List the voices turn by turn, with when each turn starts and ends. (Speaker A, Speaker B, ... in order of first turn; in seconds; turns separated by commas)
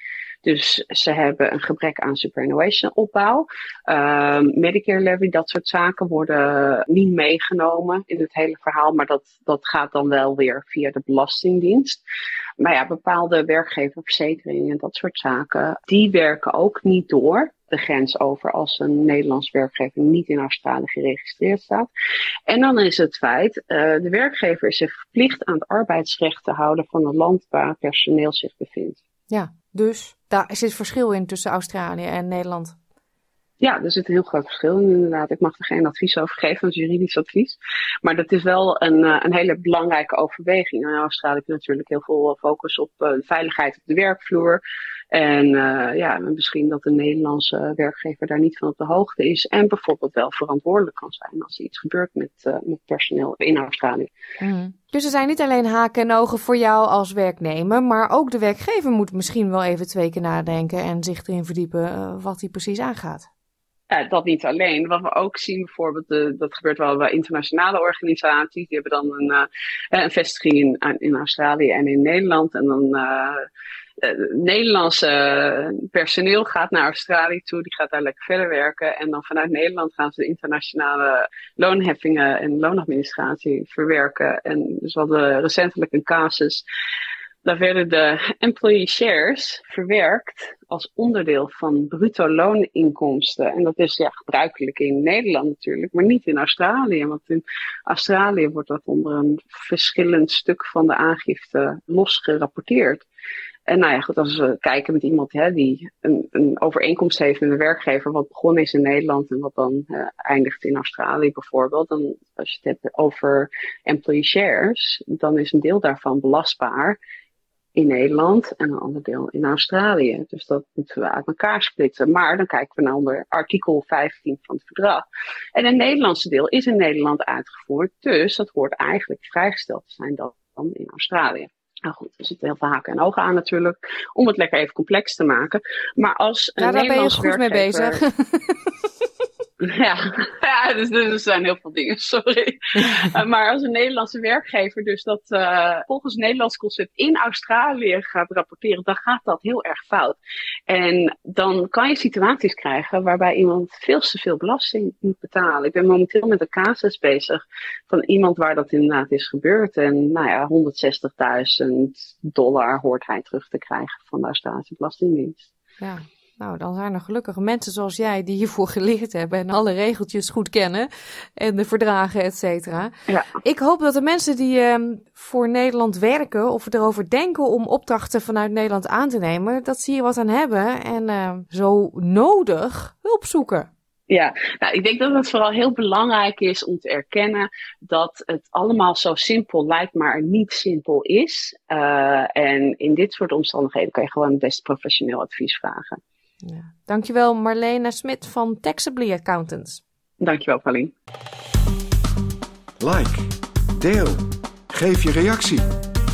Speaker A: 0.4-12.0, Speaker A: 12.6-21.9, Speaker A: 22.5-29.0, Speaker B: 29.3-32.8, Speaker A: 33.6-44.6, Speaker A: 45.1-54.1, Speaker B: 54.4-63.3, Speaker A: 63.9-73.4, Speaker A: 74.0-86.7, Speaker A: 87.4-103.0, Speaker A: 103.7-117.0, Speaker A: 117.8-125.0, Speaker A: 125.6-138.0, Speaker B: 136.6-138.7, Speaker A: 139.6-165.5, Speaker B: 165.8-183.7, Speaker A: 184.1-196.0, Speaker B: 196.4-199.8, Speaker A: 200.2-200.9, Speaker C: 202.8-205.8